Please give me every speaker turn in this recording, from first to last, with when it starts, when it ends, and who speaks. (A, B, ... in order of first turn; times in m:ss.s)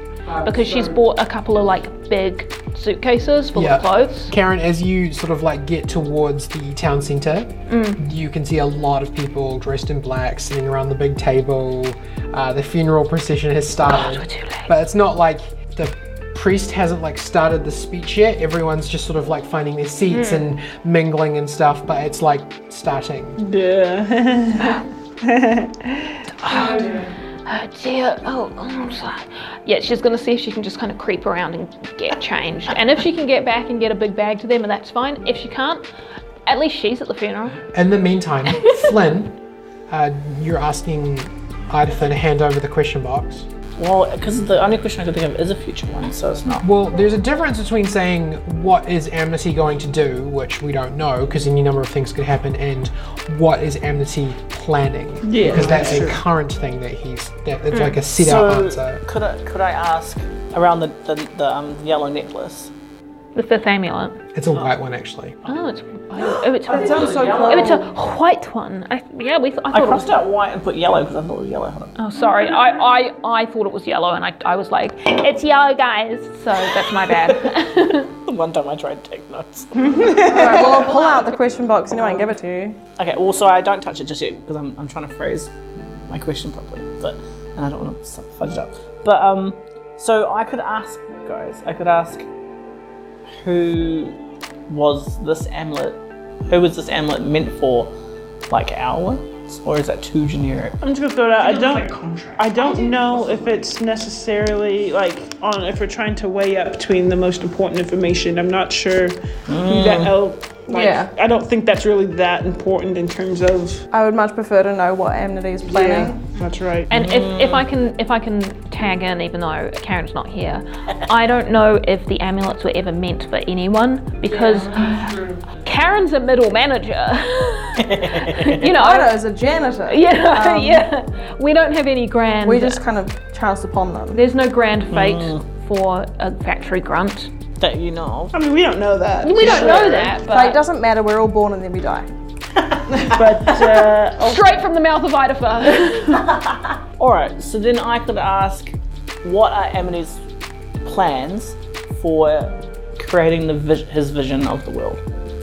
0:00.3-0:01.0 A
0:00.4-0:04.3 B
0:03.5-0:23.4 A
0:07.7-0:08.0 B
0:13.8-0:14.7 B
0:20.1-0:20.4 B
0:23.4-0:27.0 C
0:26.4-0:35.8 B
0:36.4-0:37.6 B
0:37.7-0:39.4 A
0:39.9-0:43.5 A
0:43.8-0:46.7 D
0:46.6-0:59.0 A
0:55.2-0:56.2 C
0:57.7-0:58.0 B
0:58.2-1:02.7 D
1:03.3-1:04.2 B
1:04.3-1:05.4 A
1:05.4-1:10.1 B
1:06.6-1:07.9 E
1:06.7-1:07.7 D
1:09.7-1:11.9 D
1:12.0-1:18.1 B
1:17.2-1:21.2 D
1:19.8-1:22.8 E
1:19.9-1:20.9 C
1:23.0-1:25.5 D
1:26.1-1:32.3 D
1:33.4-1:34.2 D
1:34.7-1:37.9 D
1:38.5-1:40.8 D
1:40.8-1:53.9 C
1:41.4-1:42.6 D
1:49.5-1:50.2 D
1:50.7-1:51.1 E
1:53.9-1:56.2 E
1:55.6-1:56.9 C
1:56.9-2:09.2 B
1:56.9-1:57.6 D
2:04.4-2:05.4 C
2:07.8-2:08.6 D
2:08.7-2:10.9 E
2:09.9-2:12.8 B
2:12.4-2:14.2 E
2:14.1-2:17.3 B
2:14.9-2:15.4 D
2:17.6-2:18.4 D
2:18.3-2:20.1 C
2:19.2-2:20.6 B
2:19.4-2:20.1 D
2:19.4-2:22.1 E
2:22.6-2:24.4 D
2:22.9-2:24.3 C
2:24.2-2:26.4 B
2:26.1-2:30.2 D
2:30.8-2:35.0 D